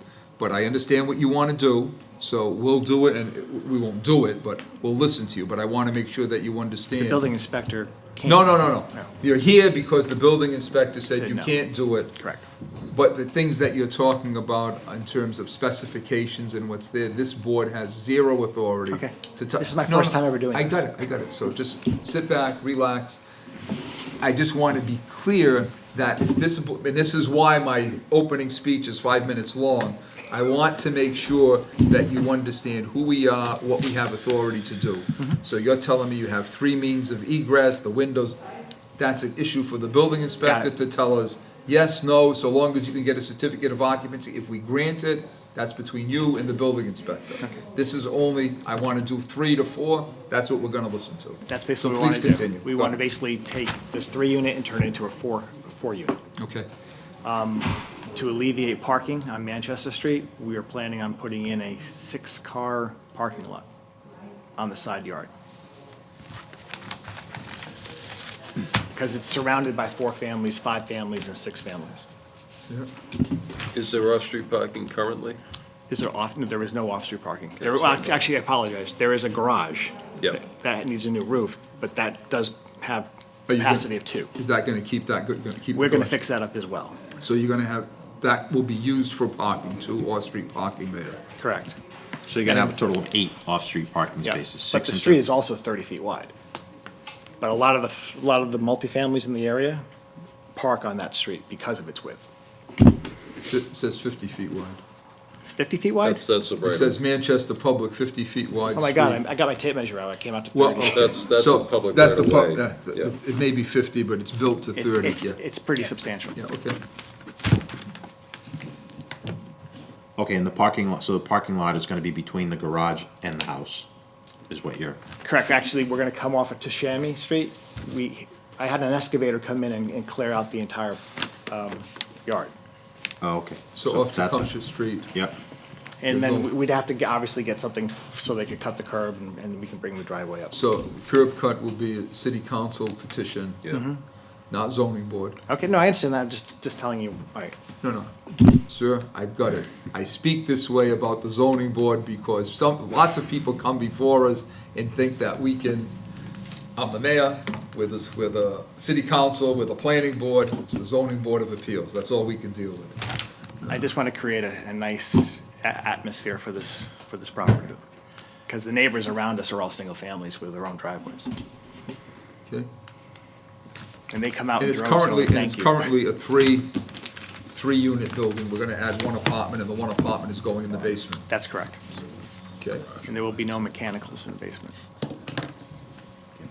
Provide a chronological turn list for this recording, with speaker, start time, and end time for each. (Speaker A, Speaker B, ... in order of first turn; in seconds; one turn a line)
Speaker A: 0.4-7.2
Speaker B: 7.0-9.1
Speaker A: 8.2-12.3
Speaker B: 11.1-12.4
Speaker A: 12.9-23.2
Speaker B: 18.9-20.9
Speaker A: 24.2-38.4
Speaker A: 39.0-53.0
Speaker B: 40.4-40.7
Speaker B: 51.5-56.2
Speaker A: 56.4-56.7
Speaker B: 57.2-63.6
Speaker B: 64.6-65.3
Speaker B: 68.9-72.0
Speaker C: 73.7-75.4
Speaker B: 75.9-84.3
Speaker C: 77.6-78.2
Speaker A: 83.5-86.2
Speaker B: 85.7-87.0
Speaker A: 87.2-91.2
Speaker B: 91.4-91.8
Speaker D: 92.3-95.2
Speaker A: 92.5-92.7
Speaker B: 94.2-96.3
Speaker B: 97.4-99.8
Speaker B: 100.5-102.2
Speaker A: 103.4-104.8
Speaker B: 105.5-106.2
Speaker C: 106.0-107.0
Speaker A: 106.6-109.2
Speaker B: 108.7-111.2
Speaker A: 110.5-115.4
Speaker C: 110.8-113.2
Speaker B: 114.8-116.4
Speaker A: 116.3-116.8
Speaker D: 120.2-123.9
Speaker D: 124.5-125.0
Speaker B: 125.2-132.5
Speaker D: 133.2-134.6
Speaker A: 133.7-135.1
Speaker B: 136.0-140.5
Speaker A: 136.1-136.6
Speaker A: 140.5-143.8
Speaker B: 143.7-144.0
Speaker A: 144.5-145.4
Speaker B: 145.5-147.6
Speaker A: 147.8-155.9
Speaker A: 156.8-163.1
Speaker B: 163.7-167.8
Speaker B: 168.5-171.3
Speaker B: 174.1-175.9
Speaker A: 174.6-176.8
Speaker A: 177.5-181.3
Speaker B: 181.3-181.8
Speaker A: 182.6-182.9
Speaker B: 183.0-184.9